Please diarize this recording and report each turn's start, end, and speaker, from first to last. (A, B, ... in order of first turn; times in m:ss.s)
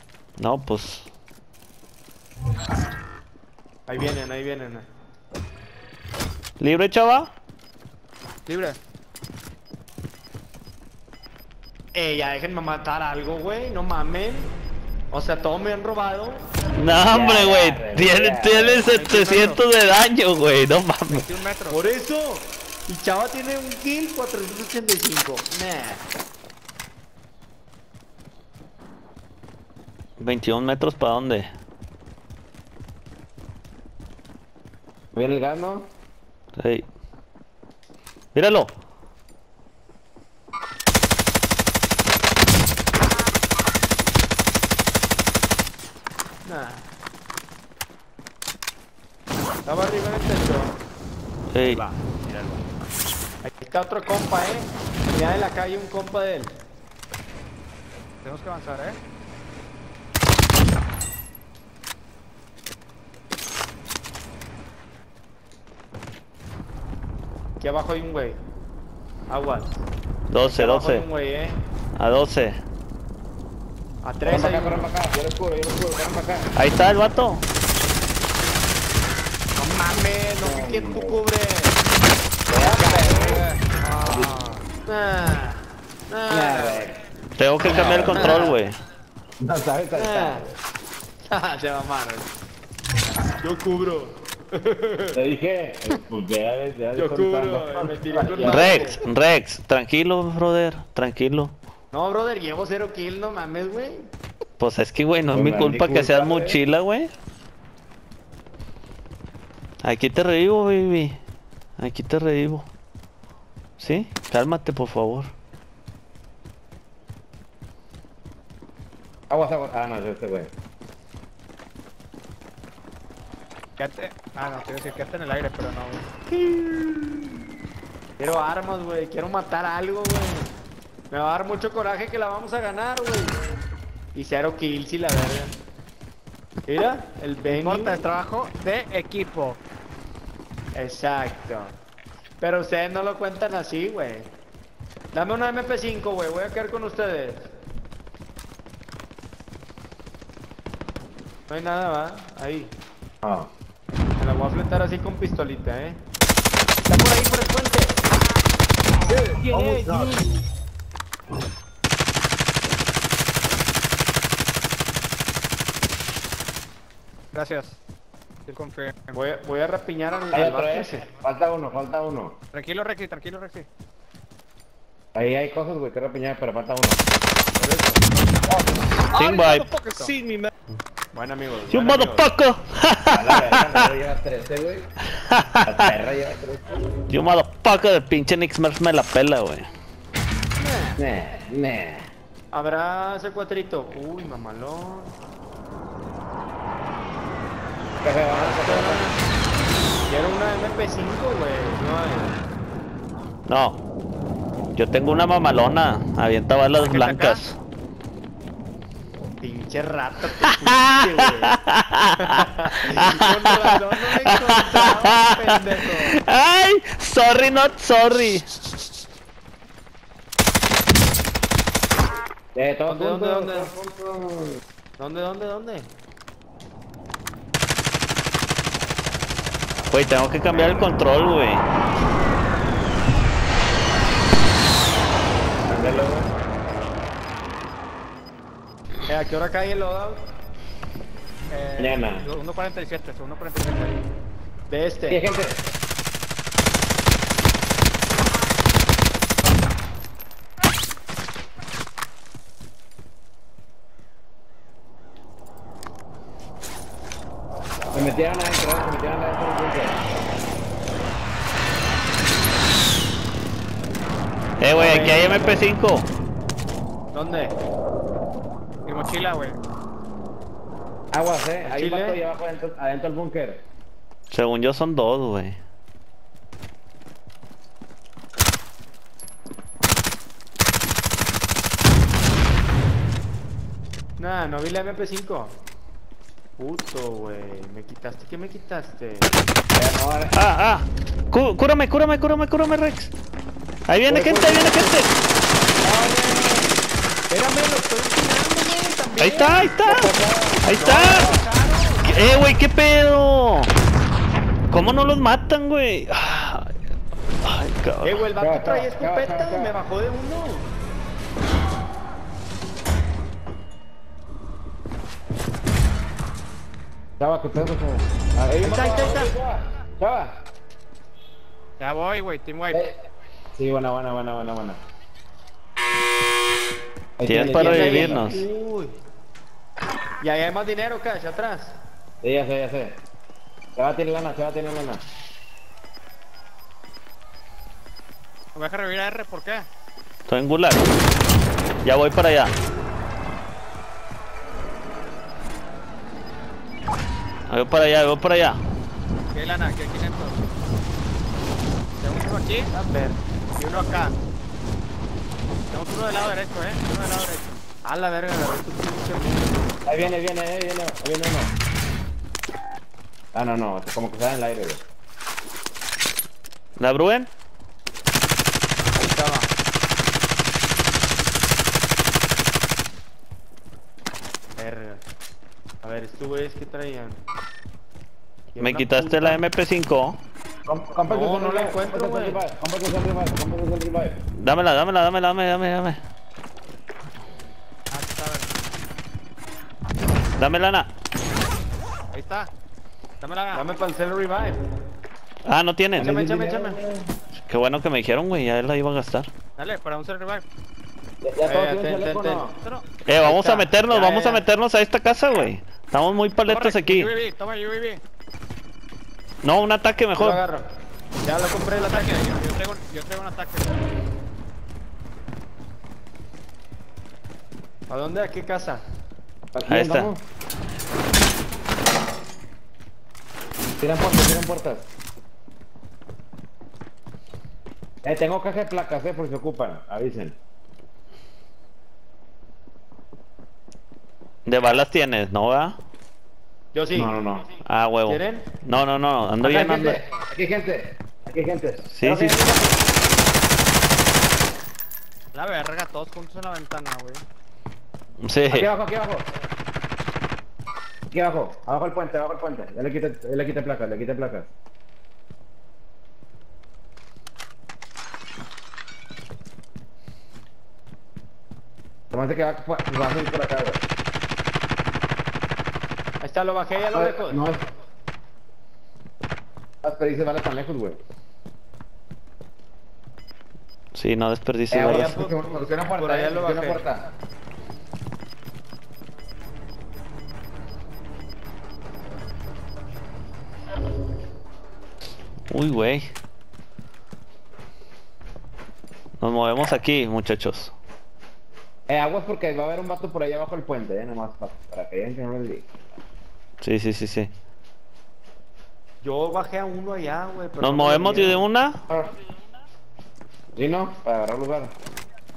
0:00.4-0:01.1 A
0:03.9-0:04.9 B
0:06.6-0:07.3 A
0:08.5-0:08.8 C
0:11.9-0:14.5 B
0:15.1-0:16.5 B
0:16.8-0:21.3 A
0:17.0-0:19.0 D
0:18.8-0:19.6 C
0:21.1-0:21.8 C
0:21.7-0:26.0 B
0:30.2-0:31.5 A
0:35.2-0:35.9 D
0:36.6-0:36.9 A
0:38.4-0:38.7 A
0:46.4-0:46.9 B
0:49.6-0:50.8 B
0:51.5-0:51.8 A
0:51.6-0:52.7 B
0:53.4-0:56.5 B
0:58.2-0:59.0 C
1:07.6-1:08.4 B
1:09.3-1:09.8 B
1:10.3-1:11.0 A
1:10.4-1:11.6 B
1:12.0-1:12.6 A
1:14.0-1:14.9 B
1:14.2-1:16.5 D
1:16.6-1:17.4 A
1:19.6-1:21.8 B
1:20.4-1:21.2 D
1:22.5-1:23.5 D
1:22.6-1:23.6 B
1:23.8-1:24.6 C
1:24.1-1:24.3 D
1:24.9-1:26.9 B
1:26.3-1:27.0 D
1:27.4-1:28.8 A
1:27.6-1:28.5 D
1:28.1-1:28.6 B
1:29.4-1:30.6 D
1:30.0-1:30.5 B
1:31.3-1:32.3 B
1:33.4-1:35.2 B
1:35.1-1:38.9 D
1:37.0-1:39.0 B
1:38.4-1:41.6 A
1:41.9-1:44.1 B
1:44.6-1:47.1 A
1:45.3-1:46.6 D
1:49.8-1:51.2 A
1:51.8-1:52.7 A
1:53.8-1:55.3 A
1:59.3-2:00.5 D
2:03.8-2:06.1 C
2:06.3-2:07.2 B
2:08.2-2:10.5 B
2:11.1-2:13.4 B
2:14.2-2:15.5 B
2:16.7-2:18.0 B
2:17.4-2:19.6 C
2:20.7-2:21.7 B
2:22.4-2:24.3 B
2:25.1-2:27.5 B
2:31.5-2:32.7 B
2:33.2-2:33.5 D
2:34.2-2:36.0 B
2:36.9-2:38.0 B
2:39.1-2:40.2 D
2:39.3-2:40.2 B
2:47.3-2:47.8 C
2:48.5-2:49.2 C
2:49.1-2:51.1 B
2:50.3-2:52.4 D
2:52.5-2:53.7 C
2:55.2-2:57.0 D
2:57.6-2:58.1 B
2:58.5-2:58.8 D
2:59.1-3:00.1 C
2:59.2-2:59.7 A
3:01.1-3:02.3 B
3:01.7-3:03.9 A
3:03.1-3:04.9 D
3:05.3-3:05.9 A
3:05.6-3:06.6 D
3:07.1-3:09.7 A
3:10.6-3:11.0 B
3:11.0-3:12.1 D
3:12.5-3:15.2 B
3:18.0-3:19.1 D
3:18.3-3:19.2 B
3:20.1-3:22.4 B
3:23.5-3:23.8 A
3:24.7-3:27.6 A
3:26.8-3:27.4 C
3:29.4-3:31.6 B
3:30.8-3:38.5 A
3:32.2-3:36.2 B
3:42.5-3:44.6 D
3:42.9-3:43.7 B
3:45.0-3:45.9 B
3:49.9-3:51.6 A
3:50.5-3:51.0 B
3:55.7-3:56.3 D
3:55.7-3:56.1 B
3:59.1-4:00.2 B
4:01.5-4:04.0 C
4:01.8-4:02.3 D
4:04.7-4:05.2 B
4:05.1-4:05.6 D
4:17.9-4:20.0 D
4:24.6-4:26.1 A
4:24.7-4:25.6 B
4:27.1-4:27.6 B
4:28.8-4:29.6 C
4:31.1-4:33.6 D
4:31.6-4:32.2 B
4:34.3-4:35.6 A
4:44.2-4:45.6 B
4:46.6-4:49.3 B
4:49.8-4:50.3 D
4:50.3-4:53.1 A
4:53.9-4:55.2 A
4:54.1-4:55.0 D
4:55.8-4:56.7 D
4:57.3-4:59.8 B
4:59.2-5:00.1 A
4:59.9-5:01.4 D
5:00.6-5:01.3 A
5:00.7-5:02.3 B
5:02.0-5:03.7 A
5:04.7-5:06.7 A
5:07.4-5:08.2 A
5:08.0-5:10.7 B
5:08.4-5:09.7 D
5:17.2-5:20.4 D
5:18.6-5:19.3 B
5:21.8-5:22.8 C
5:22.7-5:23.0 D
5:23.6-5:24.8 D
5:27.2-5:28.4 D
5:27.3-5:28.5 A
5:27.5-5:28.9 B
5:30.2-5:31.8 B
5:32.2-5:33.0 D
5:33.8-5:35.0 D
5:38.6-5:39.7 C
5:40.3-5:40.9 A
5:41.8-5:42.6 A
5:47.5-5:48.6 A
5:49.3-5:50.5 C
5:52.0-5:52.7 C
5:52.7-5:53.2 B
5:53.6-5:54.2 C
5:55.7-5:57.6 C
5:57.8-6:00.1 B
5:59.9-6:01.6 D
6:03.3-6:04.8 D
6:06.8-6:07.3 A
6:09.0-6:09.5 B
6:14.6-6:15.0 B
6:15.8-6:17.2 B
6:18.5-6:19.4 B
6:18.6-6:20.2 A
6:20.6-6:24.2 D
6:21.1-6:22.4 B
6:24.4-6:26.0 A
6:27.9-6:28.6 C
6:30.4-6:30.9 A
6:32.1-6:32.5 C
6:33.2-6:33.6 C
6:33.5-6:34.6 B
6:35.4-6:36.2 A
6:36.0-6:37.1 D
6:36.0-6:36.8 B
6:37.4-6:39.3 A
6:39.6-6:40.5 C
6:41.2-6:42.5 D
6:41.5-6:42.5 B
6:42.6-6:42.9 C
6:43.1-6:47.1 A
6:43.2-6:44.4 B
6:46.5-6:48.0 C
6:49.4-6:50.4 A
6:50.2-6:52.3 B
6:51.7-6:53.8 C
6:57.9-6:58.8 B
6:59.5-7:00.2 D
6:59.7-7:00.1 A
7:03.8-7:04.9 D
7:08.0-7:10.4 D
7:14.5-7:15.8 A
7:16.7-7:17.2 B
7:16.9-7:17.6 D
7:17.6-7:20.0 A
7:18.0-7:18.5 B
7:19.4-7:22.8 D
7:22.0-7:22.4 A
7:25.3-7:27.2 C
7:28.2-7:28.7 A
7:28.5-7:29.3 D
7:31.1-7:34.5 D
7:42.1-7:43.8 D
7:46.2-7:47.4 B
7:46.9-7:47.6 D
7:49.8-7:51.0 D
7:53.9-7:55.2 A
7:54.7-7:57.0 D
7:54.8-7:56.8 B
8:05.5-8:06.1 A
8:09.2-8:10.7 A
8:11.9-8:15.7 D
8:16.6-8:17.3 A
8:19.0-8:21.5 B
8:20.6-8:21.8 A
8:23.6-8:24.7 D